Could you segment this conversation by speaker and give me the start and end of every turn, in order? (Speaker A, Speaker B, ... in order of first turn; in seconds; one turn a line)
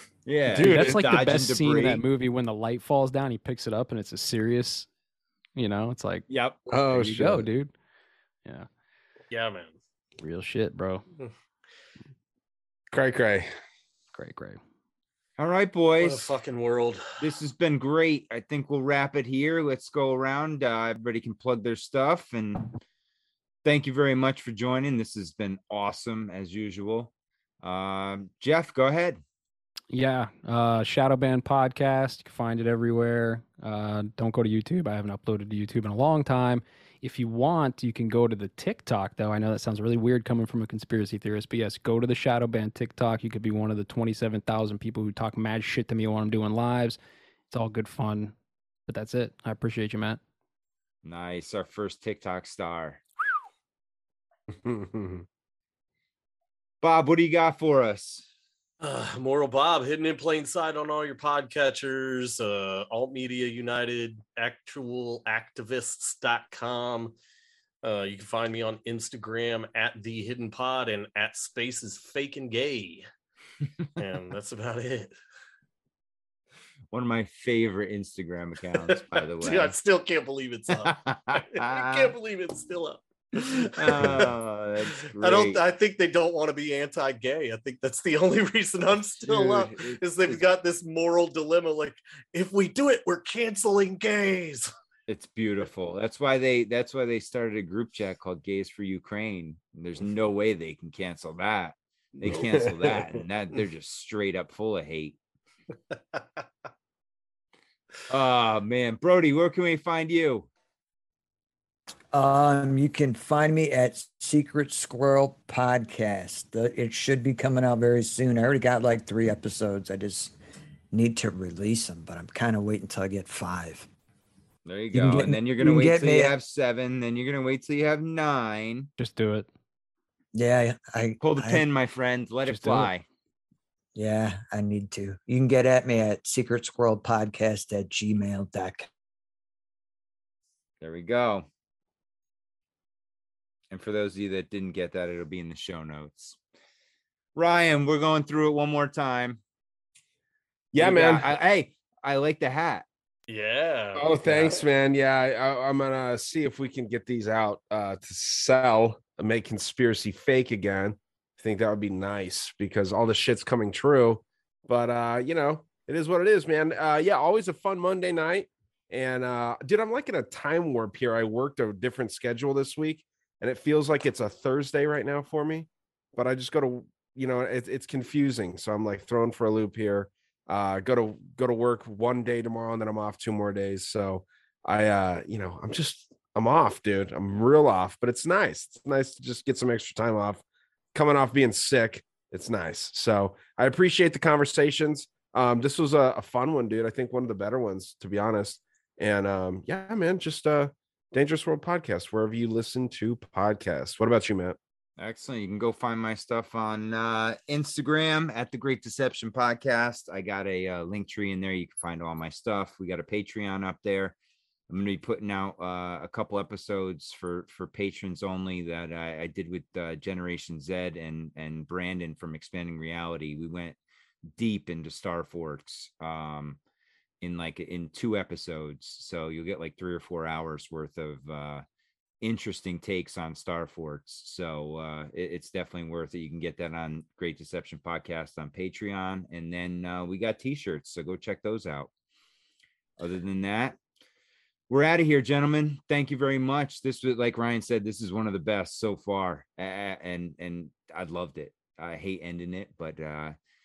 Speaker A: 0.3-2.0
Speaker B: 0.5-4.9
Speaker C: 0.5-1.0
Speaker B: 5.6-6.3
Speaker A: 6.3-7.3
Speaker C: 6.7-7.5
Speaker B: 7.1-7.7
Speaker D: 9.3-9.8
Speaker B: 10.2-11.0
Speaker C: 12.9-13.5
Speaker B: 14.2-14.6
Speaker A: 15.4-16.4
Speaker D: 16.0-17.3
Speaker A: 17.2-22.7
Speaker A: 23.6-27.1
Speaker A: 27.6-29.2
Speaker B: 29.9-47.0
Speaker B: 47.5-48.4
Speaker B: 48.9-50.2
Speaker A: 51.0-53.0
Speaker C: 54.6-55.2
Speaker A: 56.8-58.2
Speaker D: 58.8-67.2
Speaker D: 67.8-73.1
Speaker D: 74.0-75.1
Speaker A: 76.9-79.8
Speaker D: 78.9-84.3
Speaker A: 80.8-82.2
Speaker A: 83.4-85.6
Speaker D: 85.0-94.7
Speaker A: 89.2-90.4
Speaker A: 95.1-105.2
Speaker C: 102.2-103.1
Speaker D: 105.9-106.2
Speaker A: 108.1-110.5
Speaker E: 112.1-120.3
Speaker E: 120.9-123.9
Speaker A: 124.7-128.9
Speaker E: 124.9-126.4
Speaker B: 129.0-129.5
Speaker E: 130.3-131.7
Speaker A: 131.2-133.1
Speaker B: 132.5-132.9
Speaker E: 133.9-138.9
Speaker A: 140.8-141.5
Speaker A: 143.7-146.4
Speaker A: 147.3-149.4
Speaker C: 150.7-151.3
Speaker A: 150.8-152.8
Speaker D: 153.3-154.6
Speaker C: 153.9-190.4
Speaker A: 154.2-154.6
Speaker C: 190.9-204.6
Speaker A: 205.0-214.2
Speaker A: 214.7-223.8
Speaker A: 224.3-226.6
Speaker A: 227.2-231.6
Speaker A: 232.2-241.9
Speaker A: 243.0-243.8
Speaker A: 244.7-253.4